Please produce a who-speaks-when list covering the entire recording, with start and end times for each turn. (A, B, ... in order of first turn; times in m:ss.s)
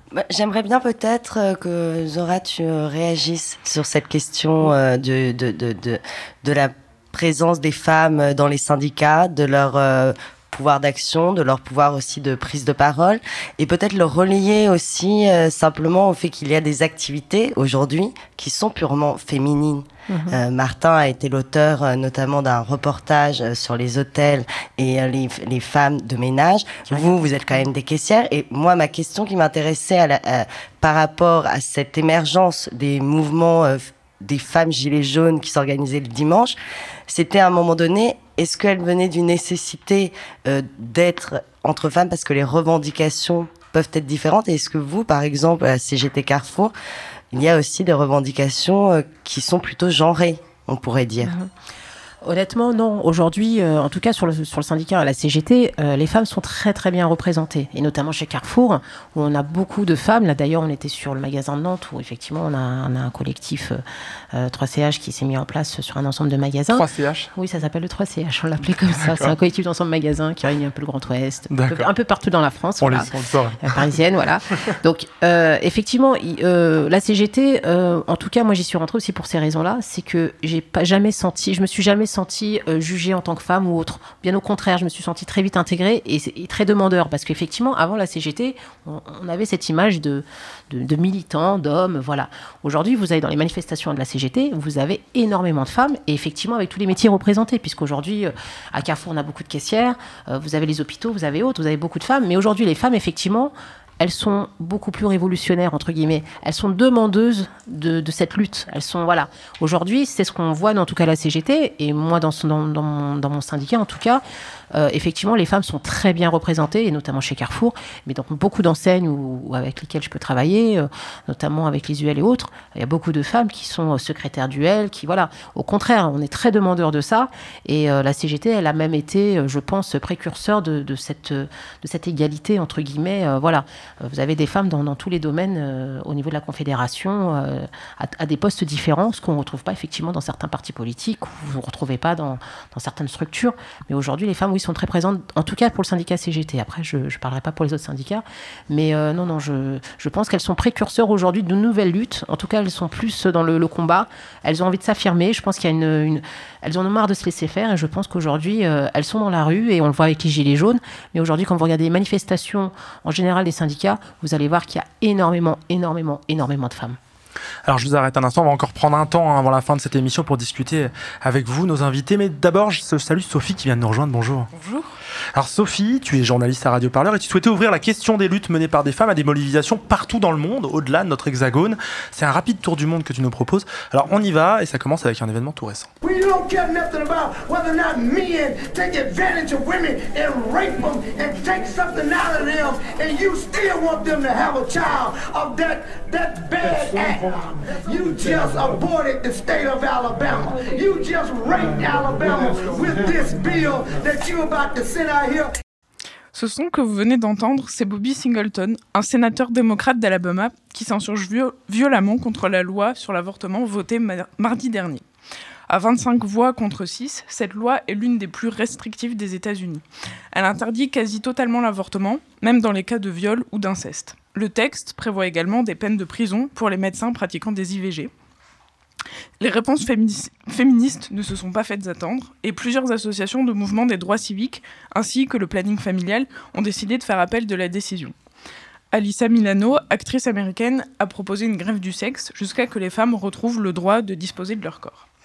0:00.1-0:36.6 A
0:20.1-0:20.4 B
0:26.9-0:27.1 B
0:37.1-0:46.7 A
0:47.3-0:51.3 A
0:51.2-0:51.5 B
0:52.2-1:54.2 B
1:06.7-1:07.3 C
1:09.1-1:09.3 C
1:11.5-1:11.9 C
1:12.8-1:13.6 C
1:54.7-2:47.0 B
2:47.6-2:54.5 C
2:54.5-2:54.9 D
2:55.3-3:05.9 C
3:06.0-3:25.5 E
3:26.3-3:35.0 D
3:35.7-3:48.1 D
3:49.4-3:58.1 D
3:58.9-4:05.1 D